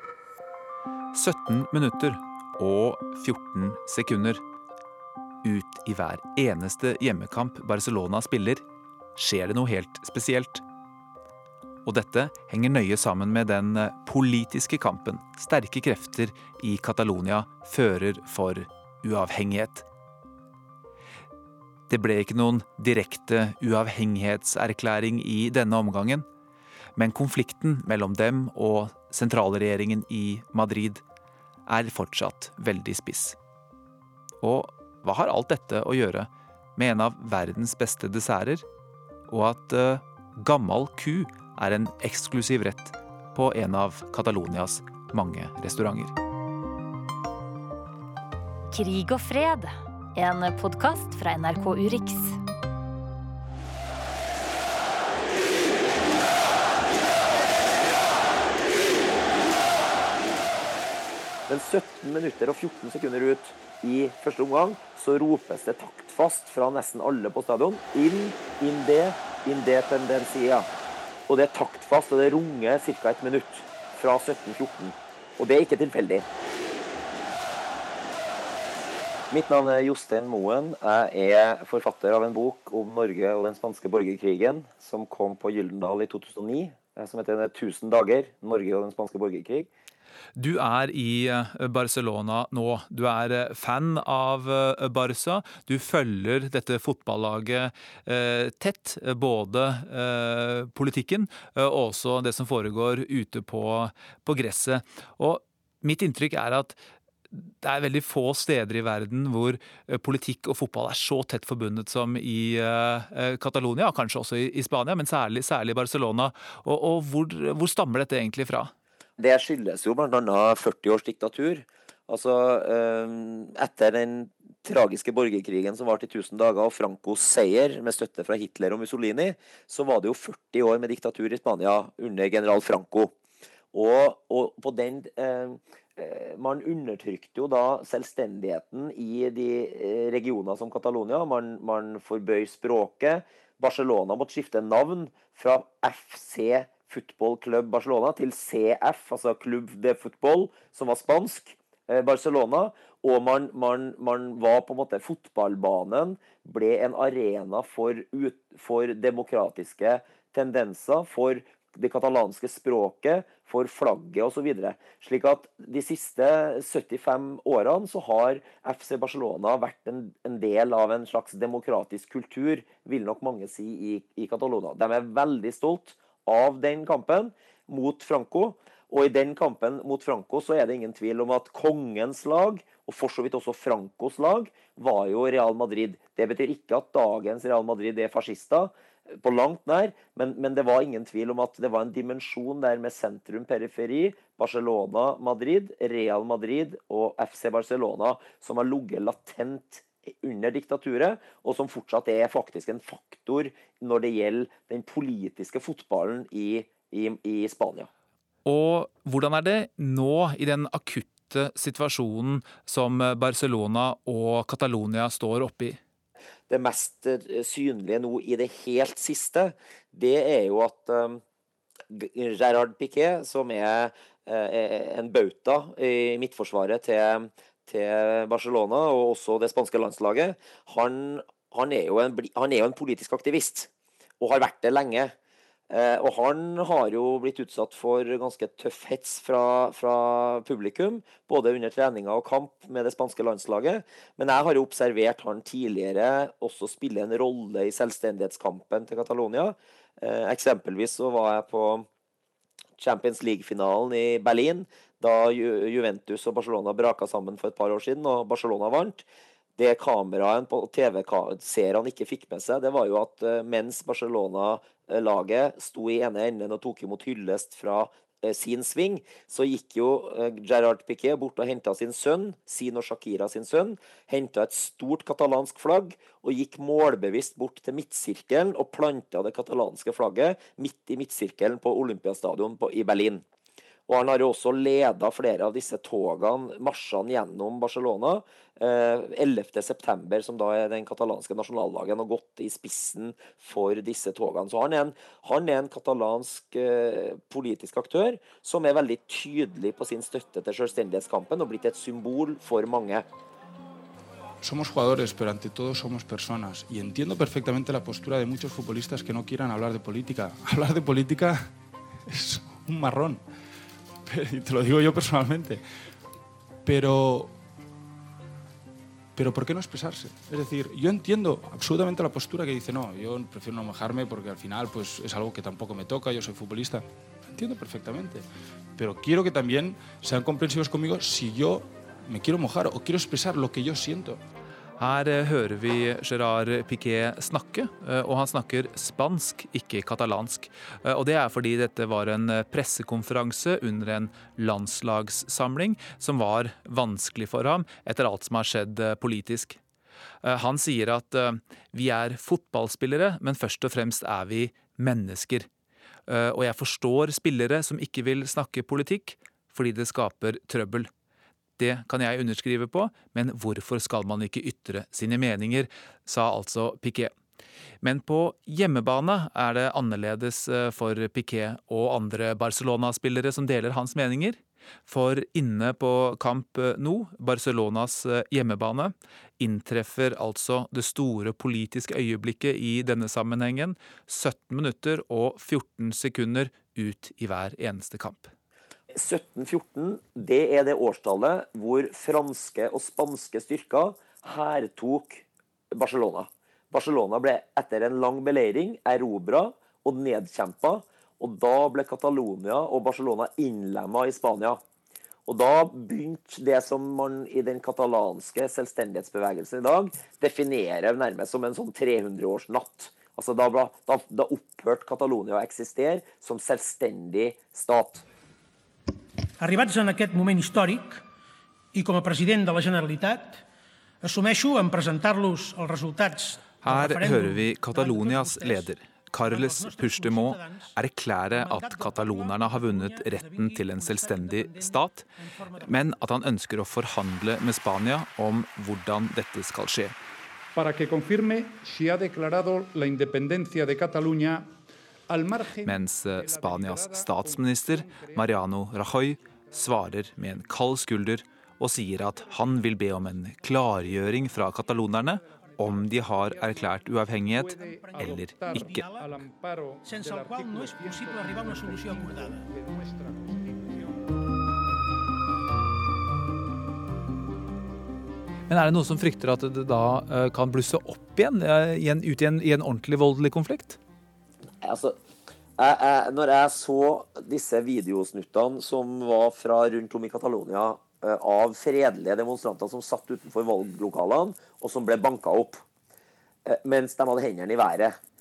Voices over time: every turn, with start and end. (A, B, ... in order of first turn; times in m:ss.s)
0:01.1-0:04.4 A
0:05.4-0:08.6 A
0:09.2-0:10.6 A
0:11.8-0:19.9 A
0:21.9-0:26.3 A
0:27.0-0:31.0 A
0:31.7-0:33.4 A
0:34.4-0:38.6 A
0:39.3-0:46.2 A
0:48.7-0:52.4 B
1:01.5-1:10.7 C
1:11.3-1:16.3 C
1:19.3-1:29.7 C
1:30.4-1:46.8 A
1:47.3-1:58.7 A
1:59.2-2:13.1 C
2:13.7-3:27.9 C
3:28.4-3:35.8 A
3:36.5-3:41.2 C
3:41.9-3:55.1 C
3:55.7-4:11.9 C
4:12.8-4:19.0 C
4:19.6-4:43.2 C
4:43.9-5:03.1 C
5:04.4-5:11.5 D
5:12.1-5:13.2 D
5:14.1-5:15.6 D
5:16.6-5:17.3 D
5:19.2-5:34.2 D
5:34.8-5:49.6 A
5:50.2-5:55.5 A
5:56.1-6:00.9 A
6:01.6-6:07.1 A
6:07.8-6:28.3 A
6:28.9-6:44.6 C
6:45.3-6:58.0 C
6:59.4-7:01.0 E
7:01.7-7:03.4 E
7:04.0-7:10.7 E
7:06.6-7:15.1 A
7:11.3-7:15.8 E
7:15.6-7:20.0 A
7:20.6-7:24.5 F
7:25.1-7:30.6 F
7:25.6-7:38.9 A
7:35.0-7:44.0 F
7:37.6-7:39.2 E
7:39.8-7:42.4 E
7:48.5-7:53.8 A
7:54.6-7:55.0 C
7:55.6-8:05.6 C
8:06.4-8:08.0 C